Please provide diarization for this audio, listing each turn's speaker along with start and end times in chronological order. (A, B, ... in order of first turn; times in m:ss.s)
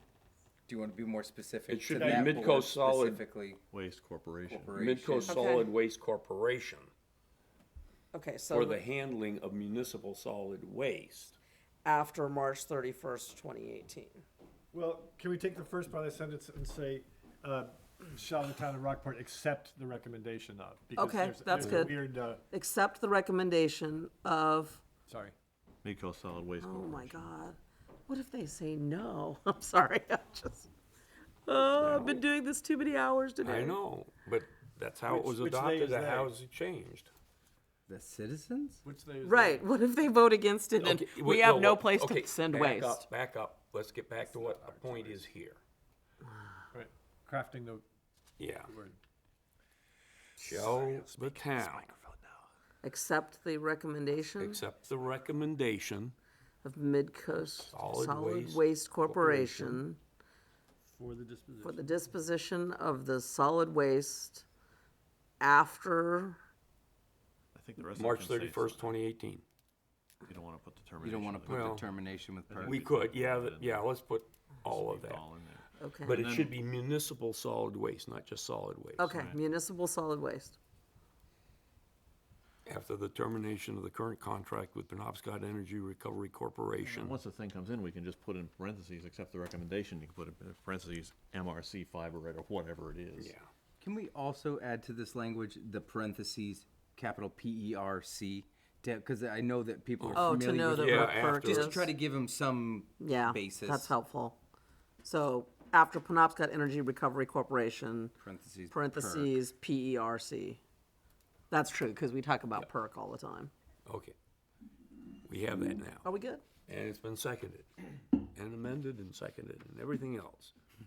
0:00.7-0:03.6 A
0:01.7-0:03.2 B
0:01.9-0:02.3 C
0:03.7-0:04.8 D
0:04.5-0:05.5 A
0:04.8-0:06.9 B
0:05.2-0:05.7 E
0:08.1-0:08.8 E
0:08.5-0:11.4 B
0:11.8-0:14.2 E
0:14.7-0:22.4 C
0:21.0-0:22.0 E
0:21.6-0:21.9 B
0:22.5-0:24.8 E
0:25.1-0:25.3 C
0:25.8-0:27.3 D
0:26.6-0:30.7 E
0:31.5-0:33.8 E
0:31.8-0:32.2 B
0:33.4-0:37.1 B
0:35.1-0:36.3 C
0:37.9-0:38.8 A
0:38.8-0:39.6 C
0:39.2-0:43.1 E
0:40.8-0:45.6 B
0:44.4-0:45.1 C
0:46.7-0:47.8 C
0:48.4-0:48.7 B
0:48.7-0:49.0 C
0:50.4-0:51.9 B
0:52.8-0:54.6 E
0:54.4-0:56.1 B
0:56.6-1:00.0 E
0:57.6-0:59.8 B
1:00.9-1:01.9 C
1:01.6-1:04.4 E
1:05.4-1:06.4 E
1:07.5-1:08.9 D
1:08.0-1:09.4 B
1:10.2-1:11.9 D
1:11.0-1:12.8 A
1:11.5-1:11.8 B
1:12.5-1:13.9 D
1:12.6-1:15.2 B
1:14.6-1:16.6 D
1:15.8-1:16.2 E
1:16.1-1:19.1 B
1:19.0-1:20.6 E
1:19.1-1:19.4 D
1:22.7-1:27.2 B
1:26.8-1:33.3 D
1:33.2-1:33.5 B
1:33.8-1:43.9 A
1:40.0-1:41.9 B
1:40.1-1:41.9 E
1:43.0-1:44.4 E
1:45.0-1:48.1 E
1:48.2-1:49.4 A
1:48.7-1:50.6 E
1:51.5-1:53.5 E
1:53.8-1:54.2 B
1:55.2-1:56.0 B
1:56.0-1:56.4 E
1:56.7-2:00.5 B